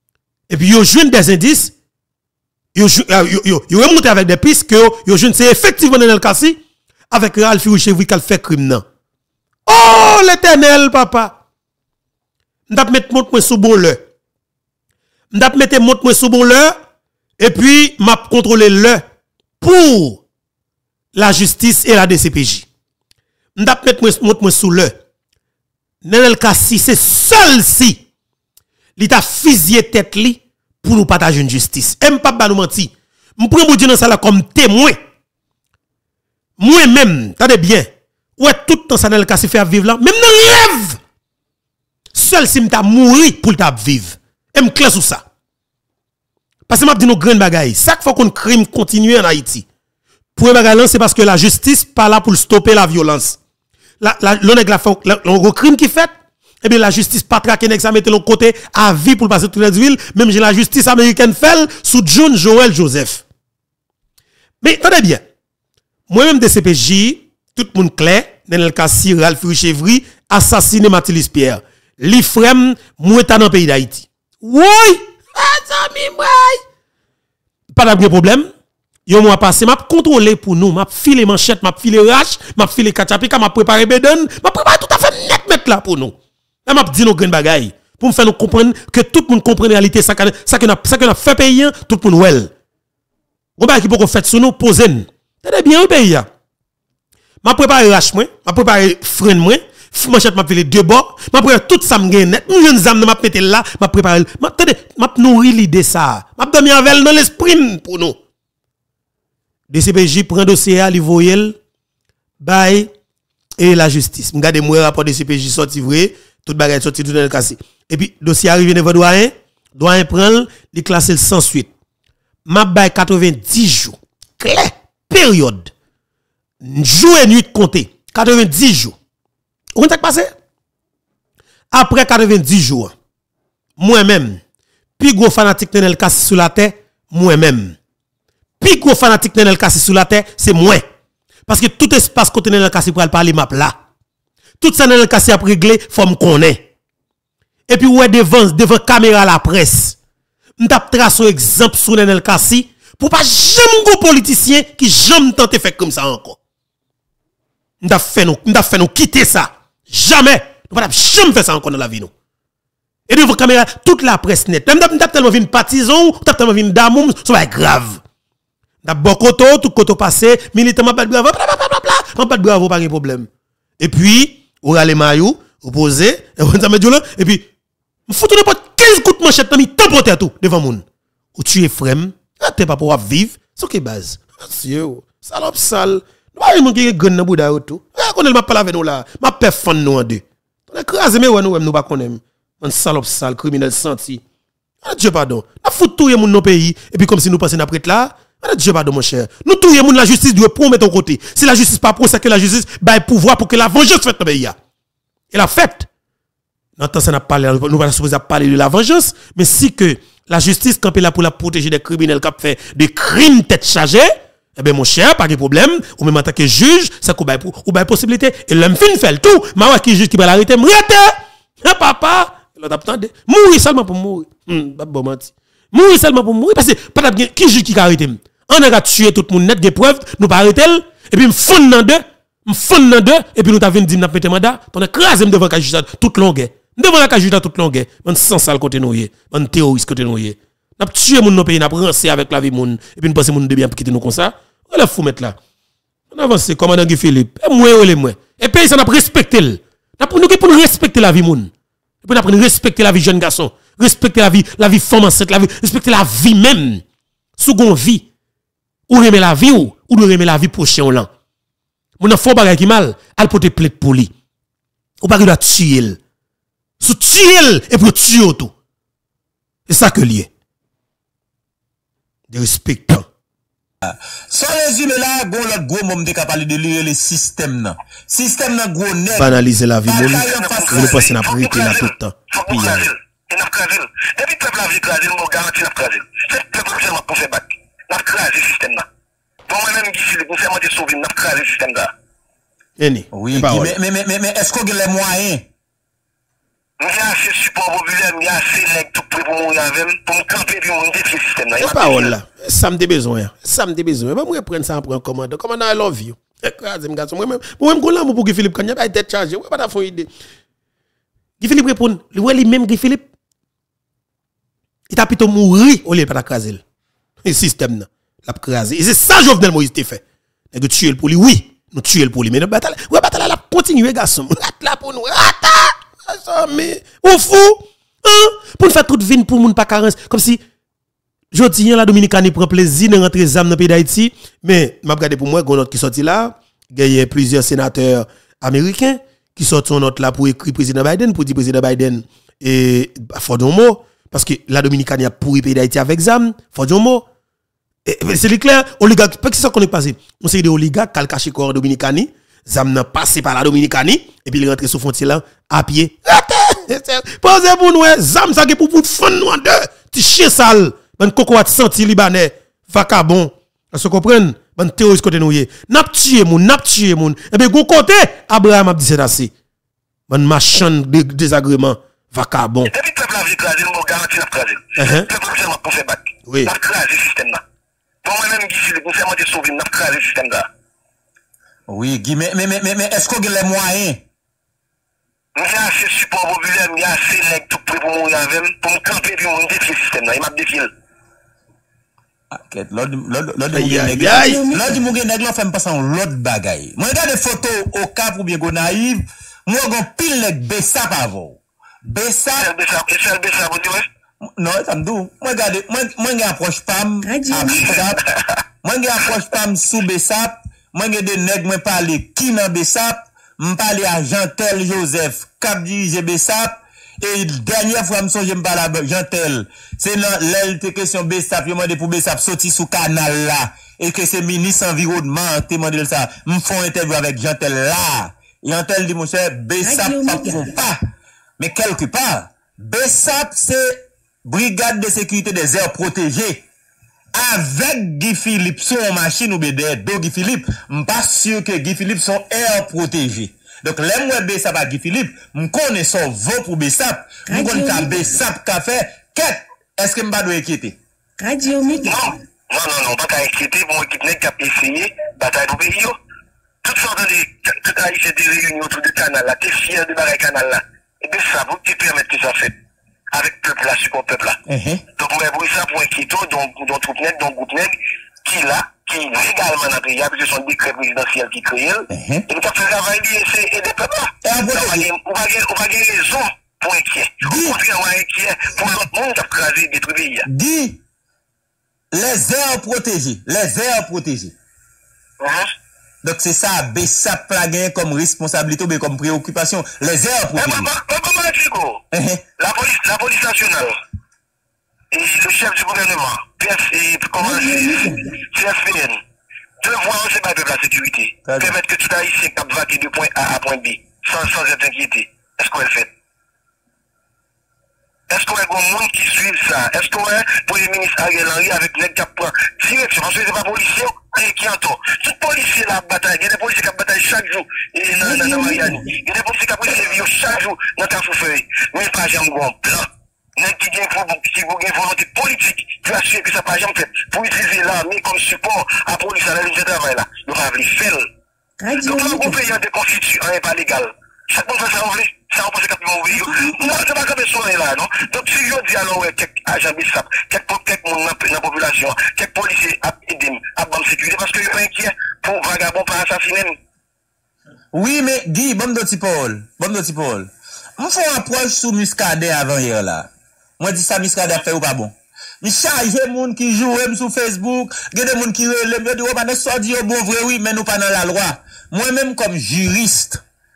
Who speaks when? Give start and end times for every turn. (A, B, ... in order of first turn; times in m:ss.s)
0:00.5-0:01.7 A
0:02.7-0:06.6 A
0:07.1-0:08.8 A
0:09.7-0:11.4 A
0:12.7-0:14.0 A
0:15.3-0:16.8 A
0:17.4-0:19.0 A
0:19.6-0:20.2 A
0:21.1-0:22.7 A
0:23.6-0:24.9 A
0:26.0-0:28.0 A
0:29.0-0:35.0 A
0:36.6-0:41.0 A
0:42.1-0:45.2 A
0:46.7-0:49.6 A
0:50.4-0:53.4 A
0:54.0-0:56.1 A
0:56.6-1:03.2 A
1:04.6-1:05.2 A
1:06.1-1:16.6 A
1:17.7-1:18.5 A
1:19.1-1:32.5 A
1:33.6-1:36.3 A
1:37.4-1:48.2 A
1:49.7-1:51.6 A
1:52.4-1:52.9 A
1:53.6-2:01.7 A
2:02.4-2:05.7 A
2:06.6-2:09.0 A
2:09.7-2:10.3 A
2:11.7-2:12.9 A
2:13.8-2:14.4 A
2:15.0-2:17.8 A
2:18.6-2:20.8 A
2:21.5-2:23.8 A
2:24.6-2:26.6 A
2:27.7-2:30.0 A
2:30.6-2:36.4 A
2:37.8-2:42.1 A
2:43.1-2:48.0 A
2:48.8-2:53.3 A
2:53.8-2:57.4 A
2:58.1-3:00.8 A
3:01.4-3:14.2 A
3:14.8-3:24.6 A
3:25.3-3:25.9 A
3:26.8-4:05.4 A
4:06.1-4:11.5 A
4:12.0-4:16.8 A
4:17.4-4:18.0 A
4:18.9-4:21.1 A
4:22.0-4:24.1 A
4:25.0-4:26.0 A
4:26.8-4:28.5 A
4:29.7-4:30.3 A
4:32.3-4:33.1 A
4:33.8-4:41.0 B
4:39.2-4:42.9 A
4:40.0-4:48.8 C
4:49.5-4:51.9 C
4:52.8-4:53.7 A
4:53.1-4:55.4 B
4:56.8-5:02.1 C
5:01.6-5:10.1 A
5:11.4-5:13.0 A
5:14.9-5:16.6 A
5:17.2-5:20.0 A
5:20.5-5:30.4 A
5:31.3-5:47.0 A
5:47.8-6:09.3 A
6:10.1-6:12.7 A
6:12.7-6:17.4 C
6:14.8-6:15.1 A
6:16.2-6:16.5 A
6:18.0-6:20.5 C
6:21.7-6:24.0 B
6:25.4-6:30.7 C
6:32.3-6:42.5 B
6:33.5-6:34.4 A
6:34.0-6:34.8 D
6:42.3-6:43.8 C
6:44.4-6:48.0 B
6:47.0-6:47.8 D
6:47.6-6:48.2 C
6:48.6-7:10.8 B
7:09.6-7:10.6 D
7:11.4-7:16.4 B
7:17.1-7:30.8 B
7:27.3-7:28.1 D
7:31.2-7:32.2 D
7:31.8-7:36.0 C
7:36.6-7:42.5 C
7:43.1-7:44.4 C
7:44.5-7:44.8 B
7:45.0-8:00.3 C
7:51.9-7:52.2 B
7:54.2-7:54.9 B
7:57.2-7:57.6 B
8:00.3-8:00.8 B
8:01.9-8:04.3 B
8:05.2-8:05.5 C
8:06.0-8:10.7 B
8:10.3-8:11.8 C
8:11.9-8:12.2 B
8:12.4-8:13.8 C
8:14.9-8:19.0 C
8:17.2-8:18.1 D
8:19.6-8:25.9 C
8:21.3-8:21.5 B
8:28.1-8:51.0 C
8:38.0-8:38.8 D
8:51.6-8:52.4 D
8:51.8-9:06.6 C
8:56.2-8:56.5 D
9:07.7-9:13.1 B
9:13.6-9:23.2 B